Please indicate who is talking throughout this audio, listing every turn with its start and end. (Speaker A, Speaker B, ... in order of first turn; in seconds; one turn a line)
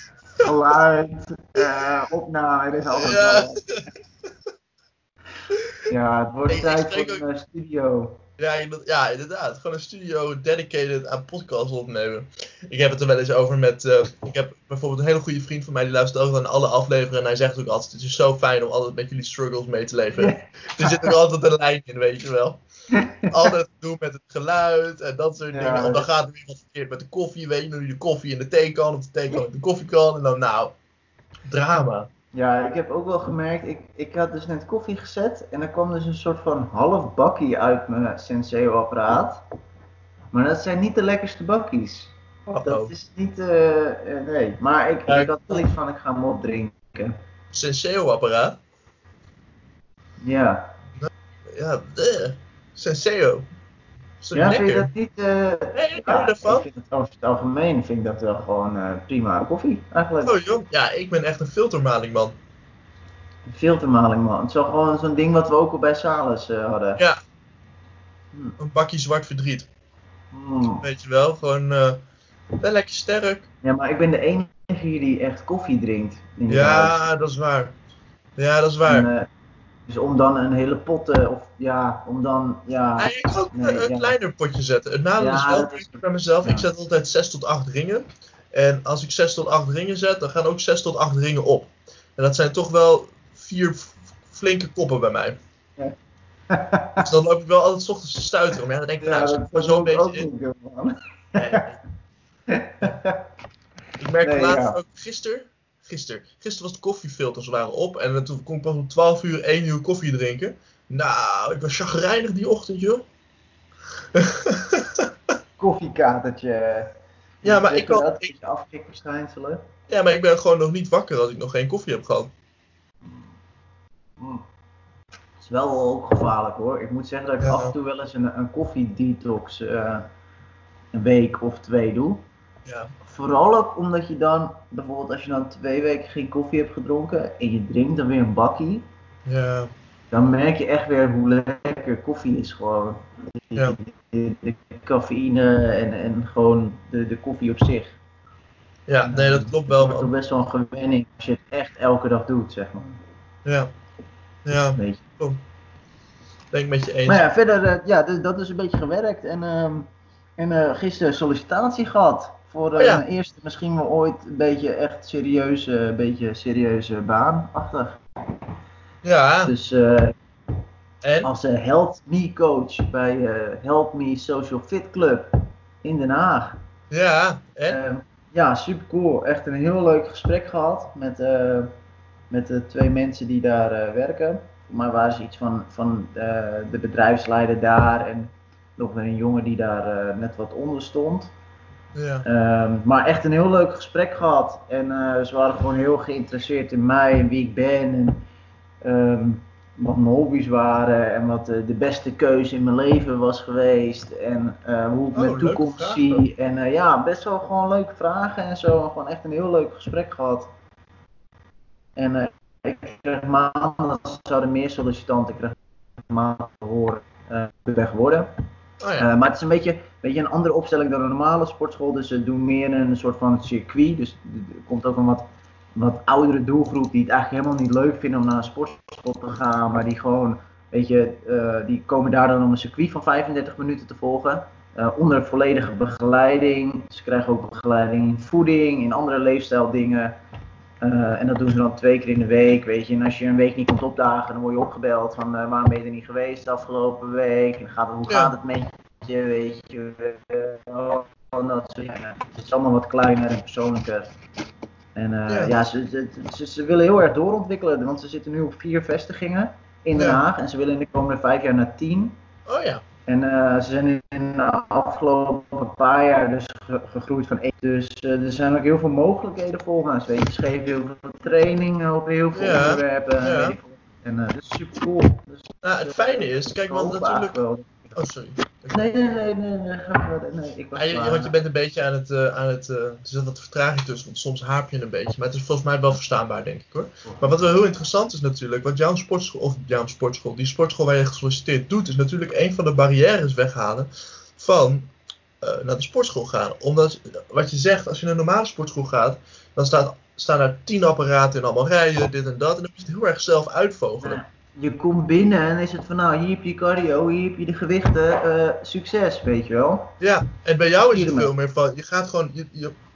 Speaker A: 0.4-3.7
Speaker B: 3.0-3.9
Speaker A: 5.9-8.2
Speaker B: 6.5-7.2
Speaker B: 8.4-22.6
Speaker A: 20.2-21.1
Speaker A: 22.9-23.5
Speaker B: 23.2-30.8
Speaker A: 25.5-26.1
Speaker B: 31.5-32.1
Speaker A: 32.3-39.4
Speaker A: 40.3-47.1
Speaker B: 42.5-42.9
Speaker B: 45.1-45.5
Speaker B: 47.5-48.6
Speaker A: 50.2-50.7
Speaker B: 51.0-53.5
Speaker B: 54.2-54.9
Speaker A: 54.3-60.4
Speaker B: 55.7-56.7
Speaker B: 60.2-62.4
Speaker A: 63.5-67.0
Speaker B: 68.6-69.7
Speaker A: 70.3-70.9
Speaker B: 70.8-72.0
Speaker B: 72.6-73.5
Speaker A: 73.6-77.0
Speaker B: 76.5-77.8
Speaker B: 78.4-79.1
Speaker A: 78.9-79.3
Speaker A: 79.9-84.2
Speaker B: 83.0-95.4
Speaker A: 85.2-86.7
Speaker A: 96.5-97.1
Speaker B: 97.0-100.3
Speaker A: 99.0-101.7
Speaker B: 101.4-101.8
Speaker A: 102.5-103.2
Speaker B: 104.0-113.0
Speaker A: 104.2-104.8
Speaker B: 114.1-115.1
Speaker A: 115.6-116.9
Speaker A: 117.4-119.6
Speaker B: 117.4-118.3
Speaker B: 119.9-122.3
Speaker A: 124.2-124.4
Speaker A: 125.4-130.1
Speaker B: 127.4-127.8
Speaker A: 130.9-132.2
Speaker B: 132.7-132.9
Speaker A: 133.0-138.9
Speaker B: 139.2-139.7
Speaker A: 140.1-148.0
Speaker B: 148.9-150.1
Speaker A: 149.0-153.0
Speaker B: 153.4-153.7
Speaker B: 154.4-155.4
Speaker A: 154.8-155.0
Speaker B: 156.5-157.2
Speaker A: 157.1-168.0
Speaker B: 162.8-163.0
Speaker B: 169.0-169.5
Speaker A: 169.5-170.2
Speaker B: 171.0-171.3
Speaker A: 171.2-176.6
Speaker B: 176.9-177.8
Speaker A: 177.7-181.7
Speaker A: 182.3-191.3
Speaker B: 191.9-192.2
Speaker A: 192.2-198.2
Speaker A: 198.8-210.5
Speaker B: 205.1-206.2
Speaker A: 212.0-218.3
Speaker B: 218.8-219.1
Speaker A: 219.0-240.2
Speaker A: 240.8-254.1
Speaker B: 248.1-248.3
Speaker A: 254.9-262.2
Speaker B: 260.0-260.2
Speaker B: 262.5-262.8
Speaker A: 263.1-278.0
Speaker B: 272.3-273.6
Speaker B: 275.6-277.4
Speaker B: 277.9-278.9
Speaker A: 278.7-281.4
Speaker B: 280.8-294.9
Speaker B: 295.4-304.2
Speaker A: 304.0-309.9
Speaker B: 310.0-312.8
Speaker A: 310.8-311.3